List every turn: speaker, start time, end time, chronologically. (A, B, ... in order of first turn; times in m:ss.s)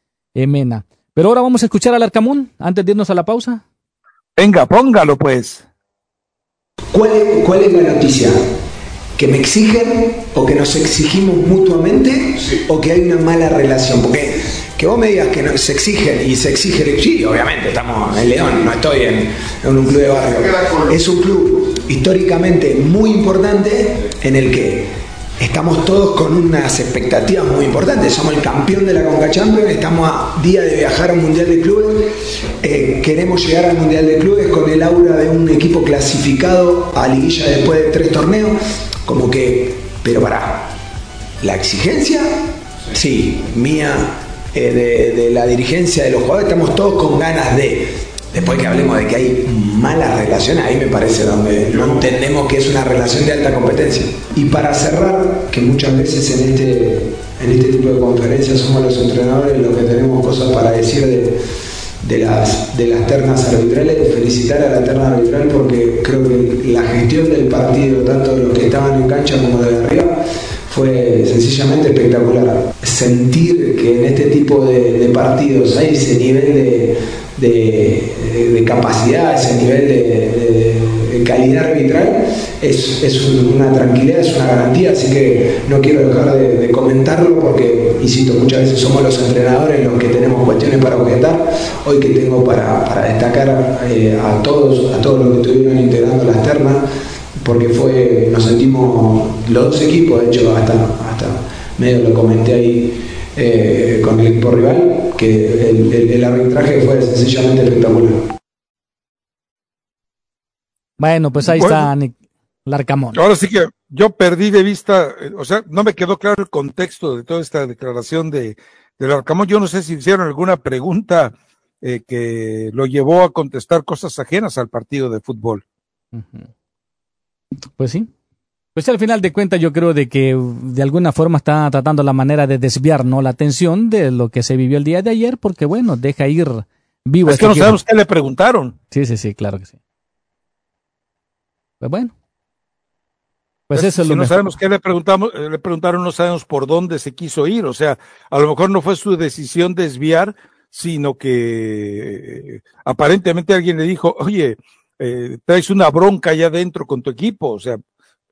0:00.4-0:03.6 A
0:04.4-0:05.6 B
0:06.9-0:08.4 C
0:09.2-0:40.7 C
0:41.4-0:42.3 C
0:42.9-1:01.4 C
1:02.0-1:10.2 C
1:10.7-1:36.8 C
1:37.4-1:48.2 C
1:51.0-1:53.2 A
1:51.4-1:51.9 B
1:53.1-2:05.6 B
2:06.1-2:06.5 A
2:07.8-2:08.1 A
2:08.8-2:17.8 A
2:17.3-2:18.8 B
2:18.9-2:19.8 A
2:21.8-2:22.1 A
2:23.7-2:24.5 A
2:23.8-2:37.8 B